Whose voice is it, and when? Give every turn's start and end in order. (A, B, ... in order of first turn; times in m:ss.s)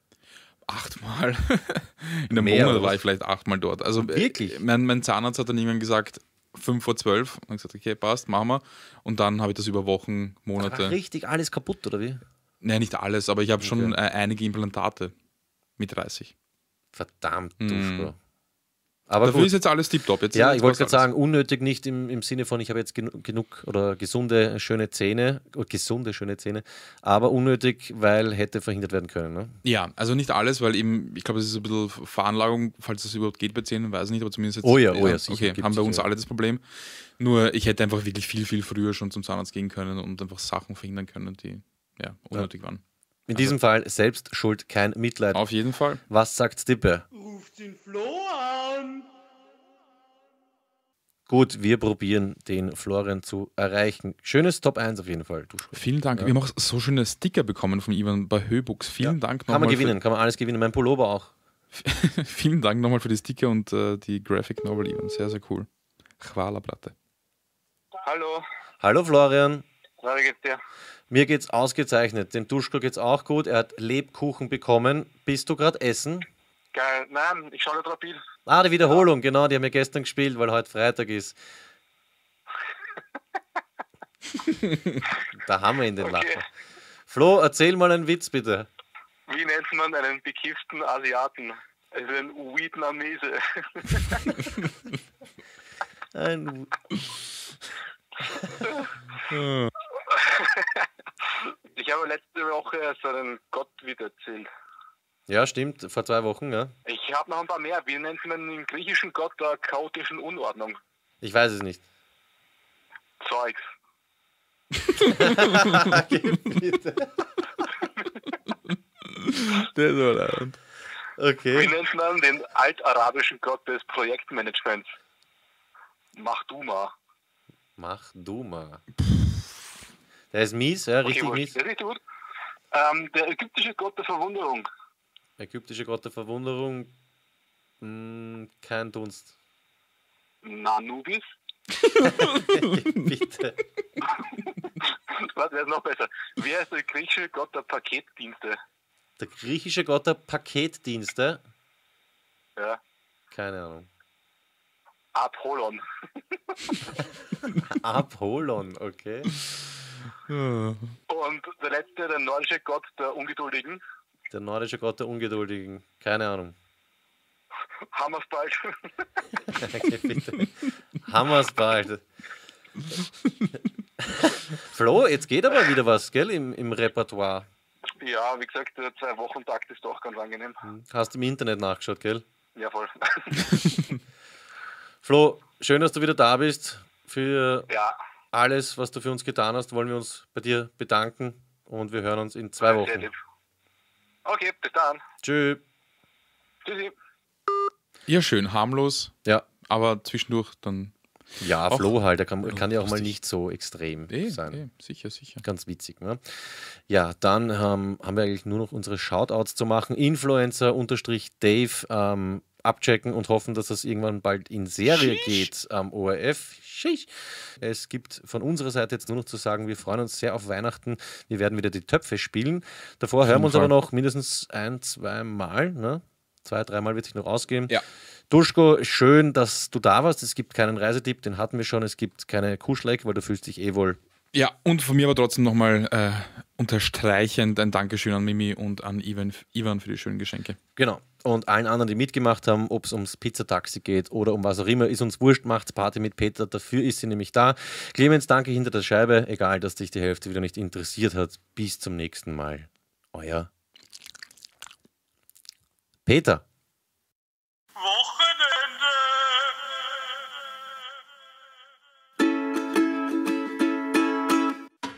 0:00.6-0:11.0 A
0:02.3-0:03.0 B
0:04.0-0:04.6 B
0:10.6-0:12.2 B
0:12.6-0:15.1 A
0:13.6-0:13.9 B
0:15.8-0:16.3 A
0:16.9-0:18.2 B
0:17.6-0:18.1 A
0:19.1-0:19.5 B
0:19.2-0:21.0 A
0:20.3-0:29.6 B
0:29.6-0:42.8 A
0:34.6-0:36.0 B
0:43.3-0:45.4 B
0:45.3-0:46.0 A
0:46.1-0:47.1 B
0:51.3-0:56.3 B
0:55.7-0:59.9 A
0:59.0-1:01.3 B
1:01.7-1:05.7 A
1:06.2-1:06.9 A
1:08.0-1:08.4 C
1:08.8-1:09.6 B
1:10.0-1:10.6 C
1:11.1-1:16.3 B
1:16.7-1:18.2 C
1:18.5-1:21.4 B
1:24.6-1:25.0 A
1:25.3-1:26.4 B
1:26.0-1:26.4 C
1:27.1-1:28.7 B
1:29.3-1:34.4 C
1:36.1-1:36.8 B
1:38.6-1:38.9 C
1:39.3-1:39.7 A
1:40.1-1:40.8 C
1:41.4-1:44.5 C
1:45.3-1:46.7 B
1:46.8-1:50.8 C
1:51.2-1:51.8 B
1:53.2-1:53.6 C
1:54.9-1:56.0 A
1:55.1-1:57.1 B
1:59.0-2:00.6 A
2:01.2-2:01.7 B
2:01.5-2:04.9 C
2:06.2-2:06.9 C
2:07.8-2:08.8 B
2:09.0-2:09.7 A
2:10.3-2:11.5 B
2:11.0-2:12.0 C
2:12.7-2:14.6 C
2:15.4-2:16.9 B
2:17.8-2:19.3 B
2:20.4-2:21.2 C
2:21.9-2:22.8 A
2:22.0-2:23.6 B
2:24.8-2:28.6 C
2:29.2-2:31.4 B
2:33.3-2:33.9 B
2:35.1-2:35.8 C
2:37.6-2:39.3 B
2:40.3-2:41.0 A
2:41.1-2:43.8 C
2:44.3-2:46.5 B
2:47.9-2:48.9 C
2:49.6-2:52.0 B
2:54.0-2:57.5 B
2:58.0-3:00.6 C
3:00.6-3:02.2 B
3:02.6-3:03.6 C
3:05.0-3:07.7 B
3:07.7-3:08.0 C
3:08.3-3:13.1 B
3:12.6-3:13.1 C
3:14.2-3:15.0 C
3:15.2-3:15.6 B
3:16.6-3:16.9 C
3:18.1-3:20.9 A
3:21.4-3:24.6 B
3:21.7-3:23.2 A
3:24.1-3:25.4 A
3:25.4-3:47.8 B
3:34.9-3:35.5 A
3:43.2-3:43.7 A
3:48.3-3:54.0 B
3:54.3-4:00.6 A
4:00.8-4:13.5 B
4:16.0-4:16.4 B